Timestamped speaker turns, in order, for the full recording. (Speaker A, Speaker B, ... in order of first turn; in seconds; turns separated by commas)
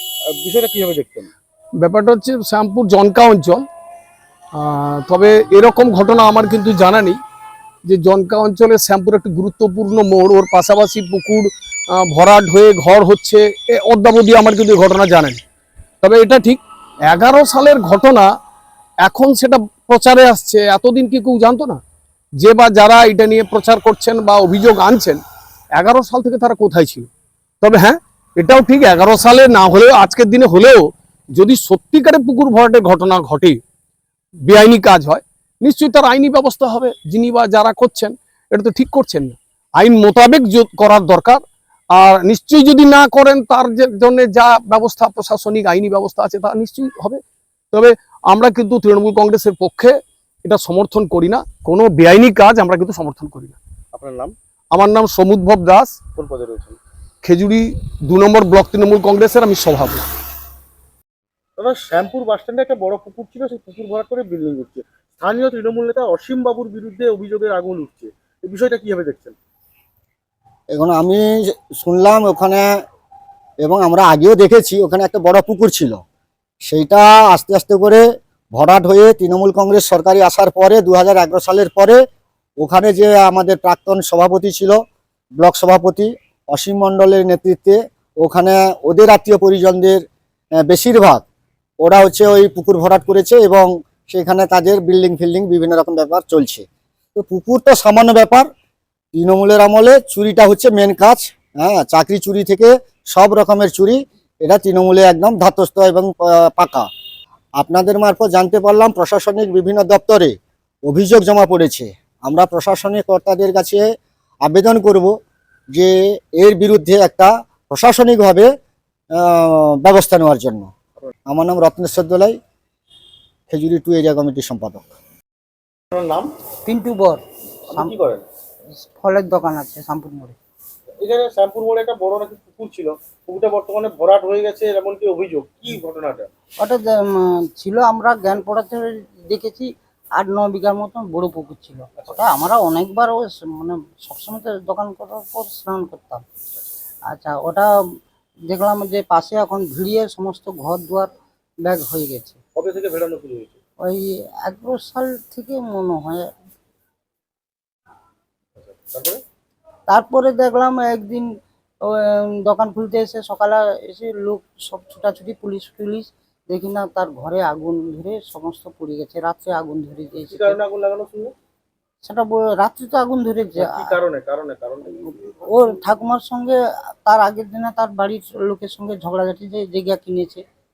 Speaker A: 0.3-1.3, Speaker B: 1.8-3.6, Speaker B: 4.6-7.2, Speaker B: 7.9-15.4, Speaker B: 16.0-18.3, Speaker B: 19.0-21.8, Speaker B: 22.4-25.2, Speaker B: 25.8-27.1, Speaker B: 27.6-33.6, Speaker B: 34.4-41.4, Speaker B: 41.9-47.2, Speaker B: 47.7-53.6, Speaker A: 53.9-54.4, Speaker B: 54.7-56.0, Speaker A: 56.1-56.8, Speaker B: 57.2-60.1, Speaker A: 61.6-69.4, Speaker C: 70.7-72.7, Speaker C: 73.6-76.0, Speaker C: 76.7-82.0, Speaker C: 82.6-84.8, Speaker C: 85.4-90.0, Speaker C: 90.7-91.2, Speaker C: 91.8-98.5, Speaker C: 99.1-106.9, Speaker C: 107.6-110.3, Speaker C: 110.9-113.8, Speaker C: 114.4-115.1, Speaker C: 115.7-118.5, Speaker C: 119.2-120.7, Speaker C: 121.3-122.4, Speaker C: 123.5-124.9, Speaker A: 125.9-126.3, Speaker D: 126.7-127.9, Speaker A: 127.7-128.2, Speaker D: 128.8-130.3, Speaker A: 131.0-136.3, Speaker D: 137.6-139.7, Speaker D: 140.2-146.2, Speaker A: 142.0-142.4, Speaker D: 147.1-147.7, Speaker D: 148.5-151.1, Speaker D: 151.7-152.4, Speaker A: 152.6-153.6, Speaker D: 153.9-156.2, Speaker A: 158.6-159.2, Speaker D: 159.9-161.2, Speaker D: 162.5-170.6, Speaker A: 170.3-171.3, Speaker D: 172.1-173.9, Speaker A: 173.6-175.3, Speaker D: 175.0-176.6, Speaker D: 177.1-180.4